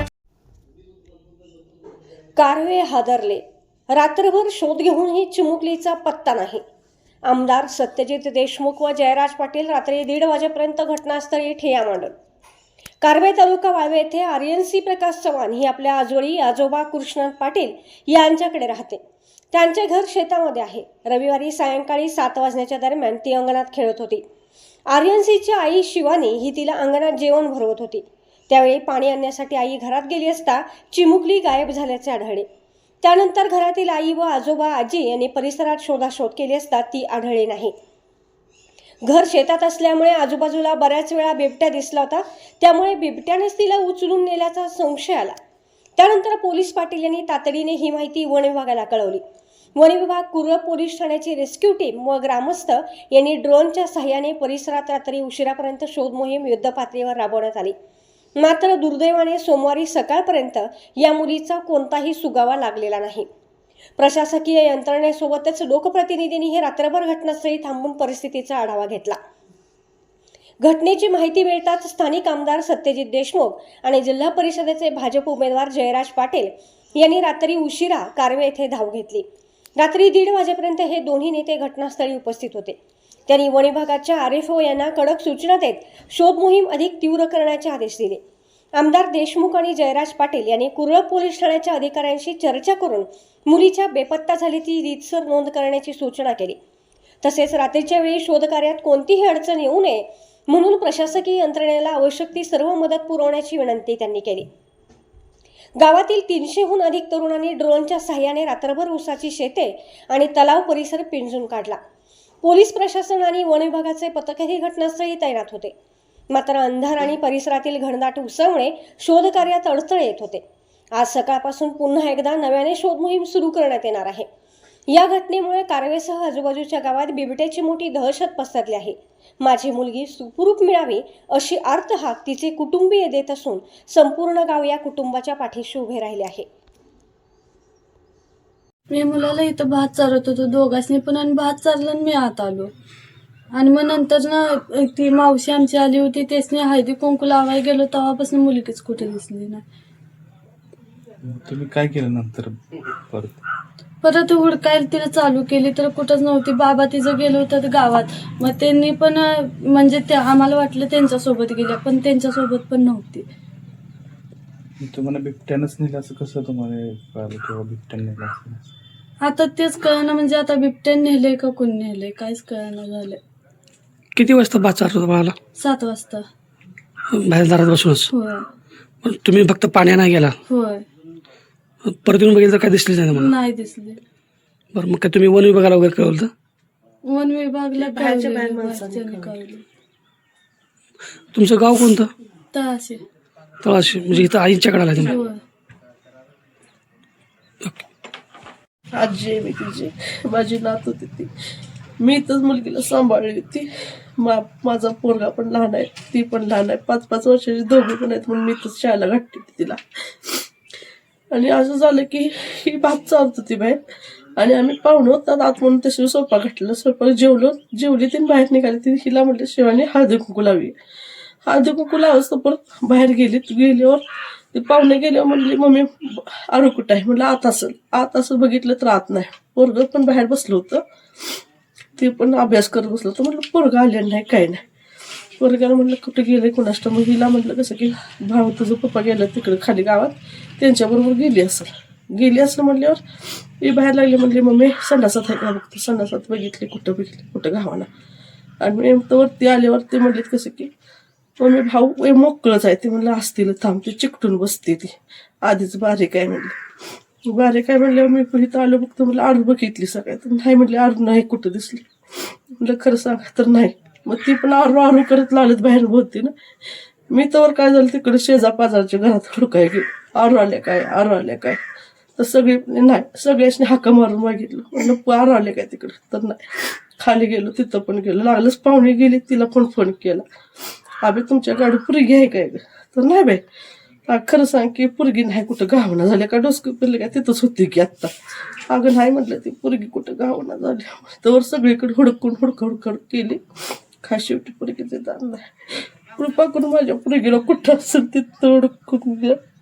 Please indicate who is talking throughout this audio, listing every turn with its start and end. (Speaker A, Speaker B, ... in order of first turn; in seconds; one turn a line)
Speaker A: 2.4-6.6
Speaker A: 7.3-12.1
Speaker A: 13.0-19.0
Speaker A: 19.5-24.2
Speaker A: 24.9-32.5
Speaker A: 33.0-37.7
Speaker A: 39.0-45.4
Speaker A: 46.0-49.2
Speaker A: 49.8-57.7
Speaker A: 58.4-63.3
Speaker A: 64.0-69.2
Speaker A: 70.6-79.2
Speaker A: 79.8-82.8
Speaker A: 83.3-88.2
Speaker A: 88.8-96.6
Speaker A: 97.2-104.5
Speaker A: 105.8-111.8
Speaker A: 112.4-115.7
Speaker A: 116.3-120.4
Speaker A: 121.0-124.2
Speaker A: 124.9-136.5
Speaker B: 138.9-142.7
Speaker B: 143.5-149.6
Speaker C: 151.2-153.4
Speaker B: 154.0-163.2
Speaker C: 164.8-168.6
Speaker B: 169.2-173.2
Speaker D: 174.1-175.3
Speaker B: 175.6-176.2
Speaker D: 177.1-178.1
Speaker B: 178.1-178.4
Speaker D: 179.0-180.4
Speaker B: 180.5-180.8
Speaker D: 181.8-183.3
Speaker B: 183.1-184.0
Speaker D: 184.7-186.3
Speaker B: 187.0-189.6
Speaker E: 187.8-189.3
Speaker D: 191.3-192.1
Speaker B: 192.5-193.0
Speaker D: 193.6-195.1
Speaker B: 195.0-195.4
Speaker E: 198.9-201.3
Speaker E: 202.0-210.4
Speaker E: 211.3-213.8
Speaker E: 214.3-220.7
Speaker E: 221.4-230.8
Speaker E: 232.0-234.6
Speaker E: 235.4-243.0
Speaker E: 243.6-247.9
Speaker E: 248.6-250.7
Speaker E: 251.4-256.6
Speaker E: 257.3-266.3
Speaker E: 267.1-271.6
Speaker E: 272.2-280.2
Speaker E: 281.0-283.4
Speaker E: 284.1-288.1
Speaker E: 288.7-293.4
Speaker E: 294.0-299.4